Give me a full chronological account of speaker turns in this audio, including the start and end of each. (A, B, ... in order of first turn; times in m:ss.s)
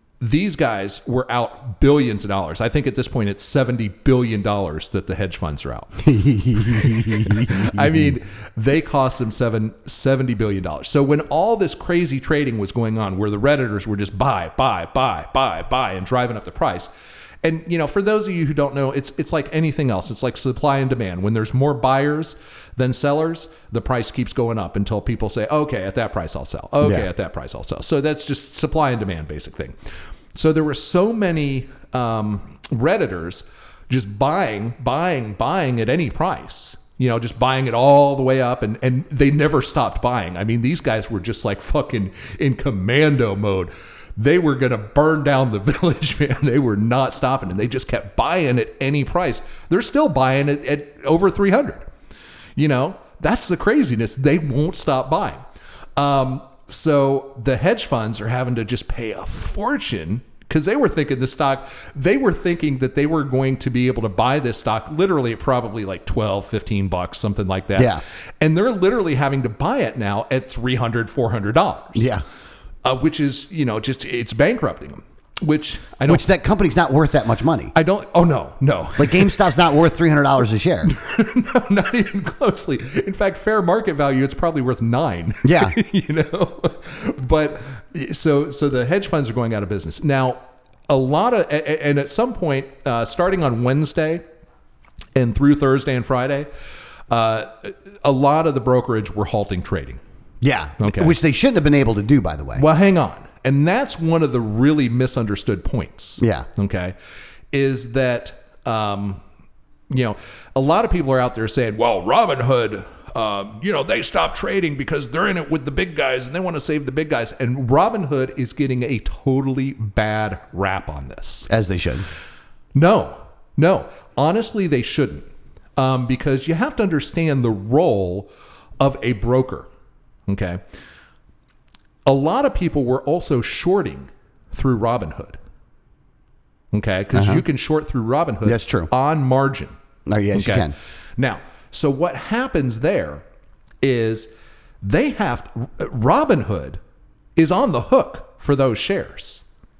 0:00.2-0:16.9 A
0:06.0-0:08.1 B
0:17.4-0:29.7 A
0:26.8-0:27.1 B
0:30.3-0:51.8 A
0:52.6-0:55.4 A
0:56.0-1:12.1 A
1:07.8-1:08.0 B
1:11.9-1:12.2 B
1:12.8-1:16.2 A
1:16.1-1:17.7 B
1:17.7-1:19.5 A
1:19.0-1:20.9 B
1:20.8-1:34.2 A
1:25.4-1:25.8 B
1:35.1-1:36.5 A
1:37.1-1:40.0 A
1:40.4-1:42.6 B
1:40.8-1:41.1 A
1:42.6-1:46.9 A
1:46.2-1:46.5 B
1:47.5-1:49.2 A
1:49.9-2:01.5 A
2:01.5-2:02.0 B
2:02.7-2:05.2 A
2:05.8-2:09.7 A
2:10.3-2:10.6 A
2:12.0-2:15.4 A
2:16.7-2:19.7 A
2:17.1-2:17.4 B
2:18.4-2:18.9 B
2:20.1-2:20.7 B
2:20.3-2:23.2 A
2:23.8-2:24.3 A
2:24.8-2:26.8 A
2:27.4-2:29.4 A